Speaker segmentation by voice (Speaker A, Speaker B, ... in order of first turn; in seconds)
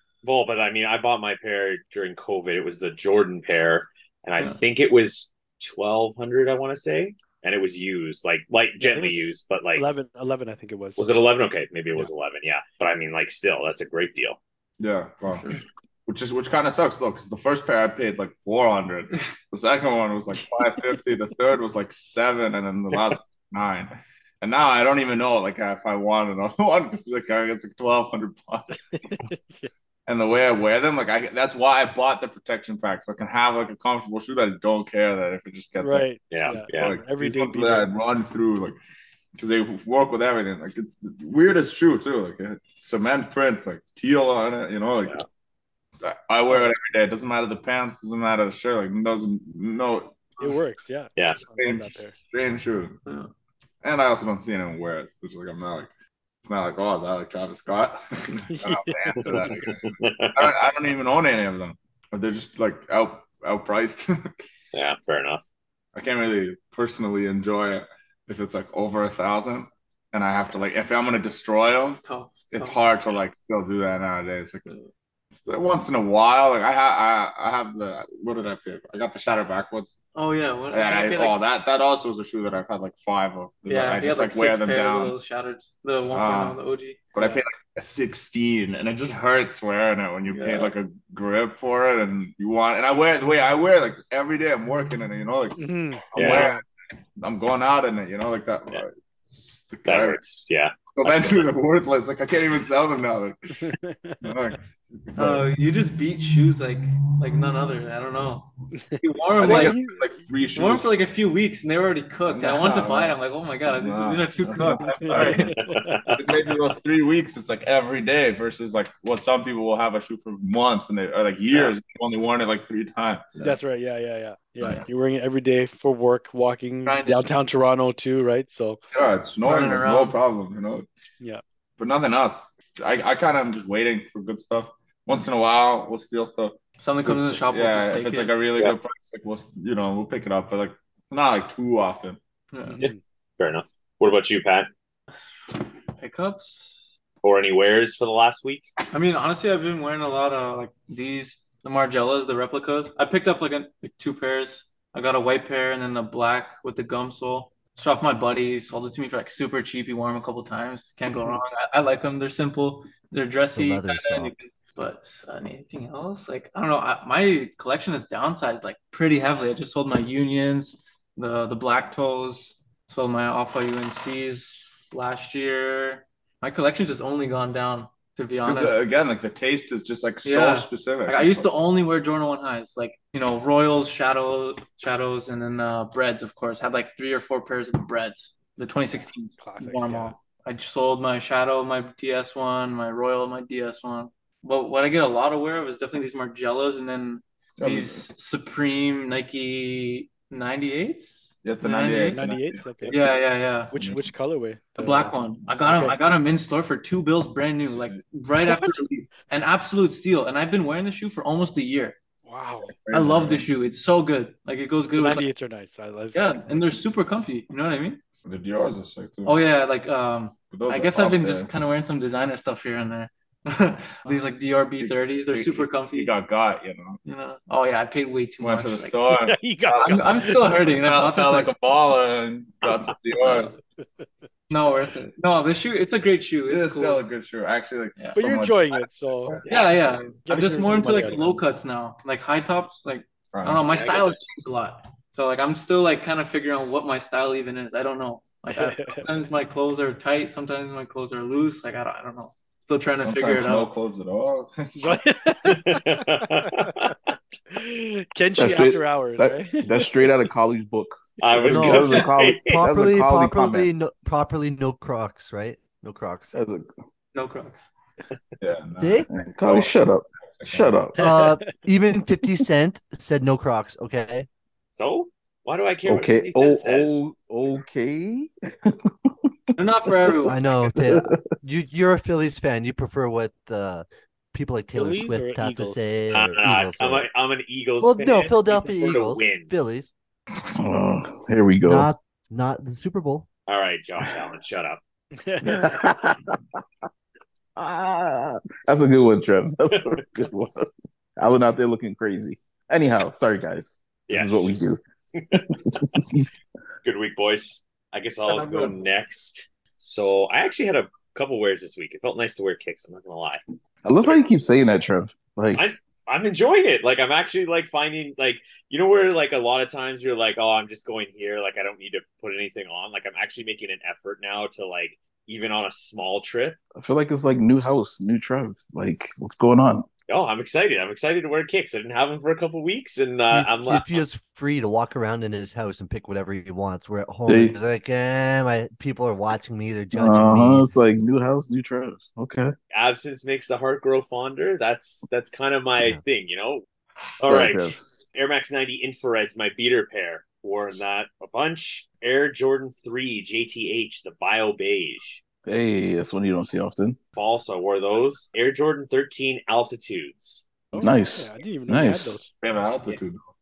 Speaker A: 0.2-9.8, 11.0-14.4, 36.3-36.9, 59.5-60.4, 64.7-65.4, 90.3-90.7, 96.1-96.5, 99.8-101.5, 115.6-116.2, 143.4-144.7, 147.2-148.7, 232.6-232.9, 239.5-239.7, 243.7-244.2, 255.5-257.1, 261.2-262.6, 274.7-277.0, 286.1-289.5, 293.5-294.8, 304.1-304.5, 305.1-305.4, 306.8-313.4, 314.0-314.5, 315.5-326.6, 330.1-334.0, 342.7-346.6, 347.2-355.2, 357.1-360.4
Speaker B: 8.8-11.1, 28.9-29.7, 35.8-37.9, 50.4-52.1, 58.5-59.3, 87.2-87.4, 95.6-96.6, 103.6-104.2, 108.8-110.0, 114.7-116.0, 123.4-128.8, 142.7-143.0, 189.4-190.1, 202.1-203.0, 203.7-205.1, 205.6-205.9, 212.3-212.8, 215.0-216.2, 229.1-230.2, 233.8-234.1, 238.2-239.3, 240.2-241.3, 248.5-249.1, 254.8-256.5, 257.5-259.8, 271.0-271.3, 284.7-285.9, 295.2-295.7, 360.7-362.3
Speaker C: 14.8-29.2, 30.1-38.8, 39.4-45.2, 46.0-50.3, 51.4-53.0, 53.8-55.9, 56.4-64.3, 65.9-74.7, 75.3-80.0, 80.7-85.2, 86.1-86.6, 87.1-96.6, 97.2-100.2, 100.9-105.5, 107.2-107.5, 109.3-111.0, 112.3-115.5, 116.1-123.3, 128.9-130.8, 131.8-142.2, 178.4-181.5, 197.6-198.0, 201.4-203.1, 207.7-208.0, 212.9-213.4, 218.2-219.4, 220.5-221.5, 224.8-227.0, 228.4-233.5, 236.5-239.5, 243.3-243.8, 253.0-255.5, 268.4-269.8, 270.4-270.9, 362.4-363.2
Speaker D: 15.3-15.6, 53.0-53.3, 71.9-72.8, 80.1-81.4, 83.7-87.0, 105.2-109.9, 110.5-115.6, 126.8-127.2, 129.4-130.2, 136.8-138.6, 142.5-142.9, 145.1-146.9, 148.9-178.8, 180.2-202.2, 202.9-203.8, 204.8-212.0, 212.9-215.3, 216.1-218.0, 219.2-226.1, 227.1-229.0, 229.8-231.5, 234.5-237.0, 238.0-238.2, 239.5-253.7, 267.1-267.7, 279.6-280.5, 308.3-308.7
Speaker E: 163.5-164.3, 261.4-266.3, 268.8-269.1, 271.0-274.3, 280.2-287.1, 287.8-289.9, 291.6-293.3, 333.3-340.7
Speaker F: 258.4-263.7, 266.3-266.7, 269.1-271.0, 275.9-281.2, 290.5-291.9, 295.4-296.6, 297.6-304.8, 305.3-306.3, 313.8-315.7, 326.8-329.9, 337.3-337.5, 339.9-342.5, 347.2-347.8, 355.4-357.0, 360.8-362.2